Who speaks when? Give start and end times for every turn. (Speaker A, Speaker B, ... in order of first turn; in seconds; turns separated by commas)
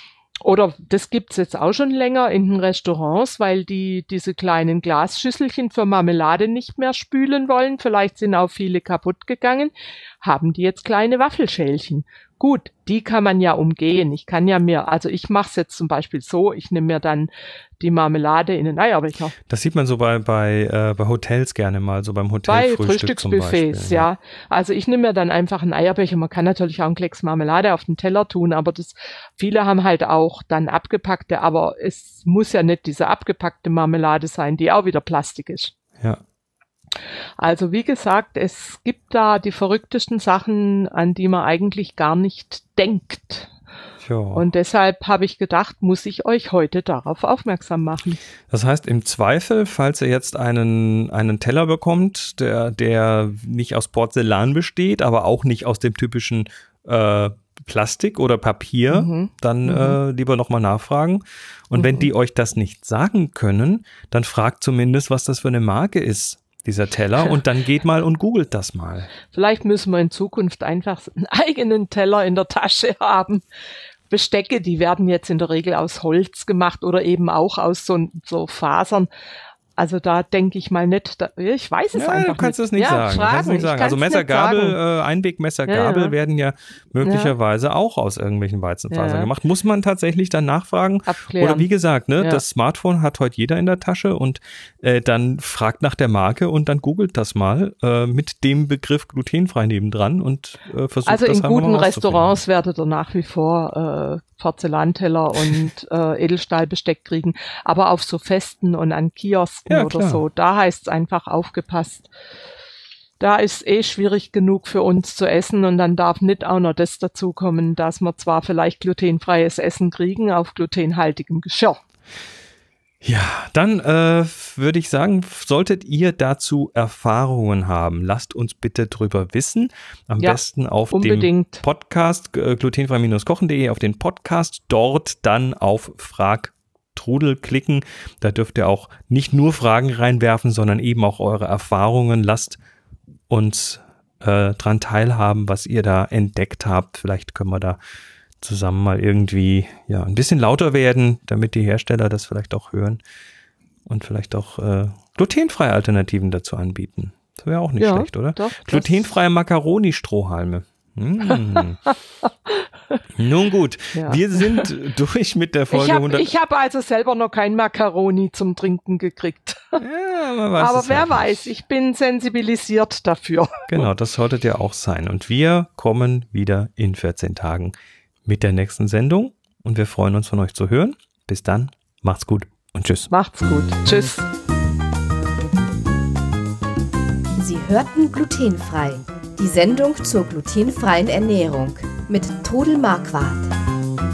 Speaker A: 0.4-19.3, Speaker B: 19.5-24.1, Speaker A: 22.4-35.7, Speaker A: 37.4-43.5, Speaker B: 44.0-44.4, Speaker A: 44.3-48.2, Speaker B: 48.5-69.1, Speaker A: 58.9-60.0, Speaker A: 61.8-62.1, Speaker A: 69.3-73.4, Speaker A: 74.1-79.1, Speaker A: 79.8-84.8, Speaker B: 81.9-102.3, Speaker A: 85.7-86.1, Speaker A: 87.0-87.3, Speaker A: 88.9-89.3, Speaker A: 91.0-92.4, Speaker A: 101.0-112.1, Speaker B: 109.7-110.2, Speaker A: 113.2-121.8, Speaker B: 123.0-142.6, Speaker A: 130.2-131.6, Speaker B: 143.3-147.8, Speaker B: 148.4-153.0, Speaker B: 153.9-161.8, Speaker A: 157.8-159.0, Speaker A: 161.3-161.6, Speaker A: 162.2-163.0, Speaker B: 163.2-166.3, Speaker A: 163.9-164.7, Speaker A: 165.7-169.8, Speaker B: 169.8-171.5, Speaker A: 170.6-173.8, Speaker B: 173.7-177.7, Speaker B: 178.2-183.1, Speaker A: 183.1-184.2, Speaker C: 187.4-193.5